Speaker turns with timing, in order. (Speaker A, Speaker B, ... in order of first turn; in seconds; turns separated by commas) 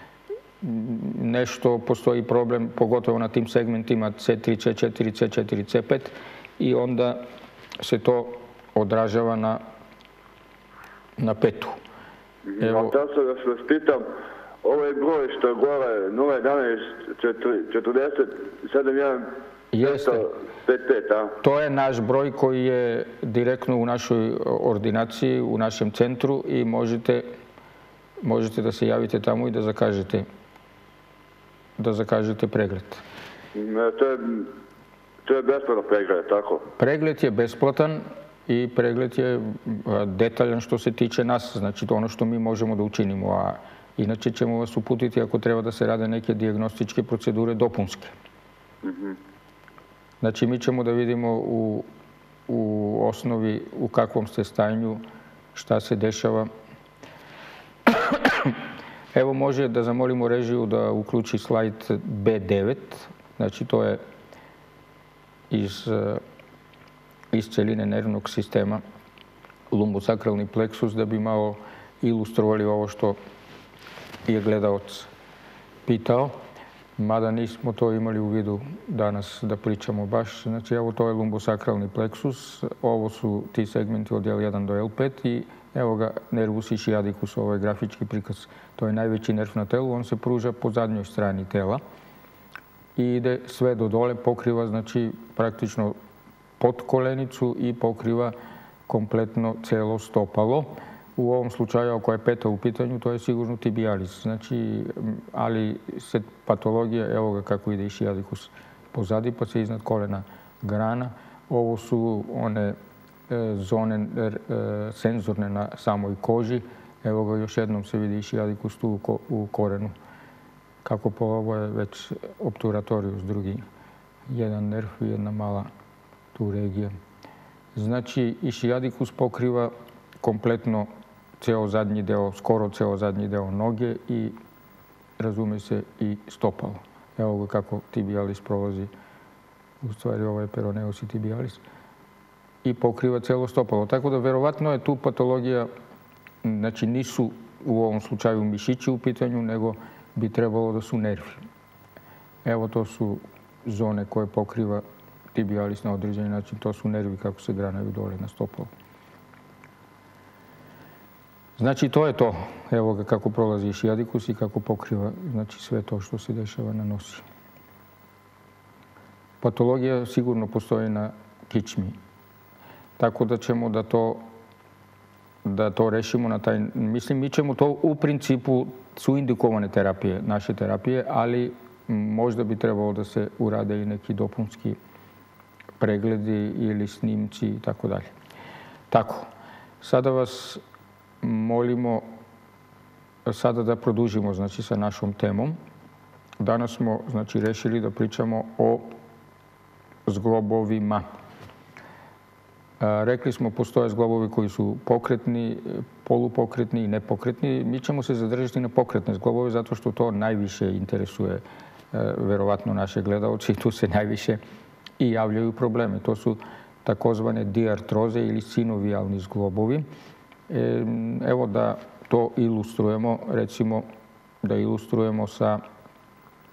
Speaker A: 0.6-7.2, Speaker A: 7.8-9.6, Speaker A: 11.2-11.8, Speaker B: 12.5-14.1, Speaker A: 12.6-12.9, Speaker B: 14.6-19.3, Speaker A: 19.7-20.2, Speaker B: 19.8-21.4, Speaker A: 21.4-27.2, Speaker A: 28.2-30.2, Speaker A: 31.8-33.0, Speaker B: 33.5-34.5, Speaker B: 35.2-36.6, Speaker A: 36.8-48.1, Speaker B: 48.8-49.2, Speaker A: 50.2-51.9, Speaker A: 52.5-55.0, Speaker A: 55.5-56.5, Speaker A: 57.9-58.5, Speaker A: 59.1-64.0, Speaker A: 65.5-66.2, Speaker A: 67.3-68.8, Speaker A: 69.7-73.2, Speaker A: 74.2-75.1, Speaker A: 75.8-76.4, Speaker A: 77.0-91.8, Speaker A: 93.0-96.0, Speaker A: 96.6-98.3, Speaker A: 98.9-112.8, Speaker A: 113.3-119.9, Speaker A: 120.8-123.6, Speaker A: 124.3-125.7, Speaker A: 126.3-126.9, Speaker A: 127.7-130.9, Speaker A: 131.4-134.3, Speaker A: 135.2-138.9, Speaker A: 139.8-141.6, Speaker A: 142.6-145.7, Speaker A: 146.4-151.4, Speaker A: 152.4-154.8, Speaker A: 155.3-158.7, Speaker A: 161.6-167.2, Speaker A: 169.4-171.9, Speaker A: 173.0-174.2, Speaker A: 175.4-184.8, Speaker A: 185.8-188.1, Speaker A: 188.9-189.3, Speaker A: 189.8-190.6, Speaker A: 191.2-192.1, Speaker A: 193.2-195.6, Speaker A: 196.4-198.9, Speaker A: 200.1-201.0, Speaker A: 202.8-214.4, Speaker A: 215.0-219.8, Speaker A: 220.5-223.8, Speaker A: 224.4-225.6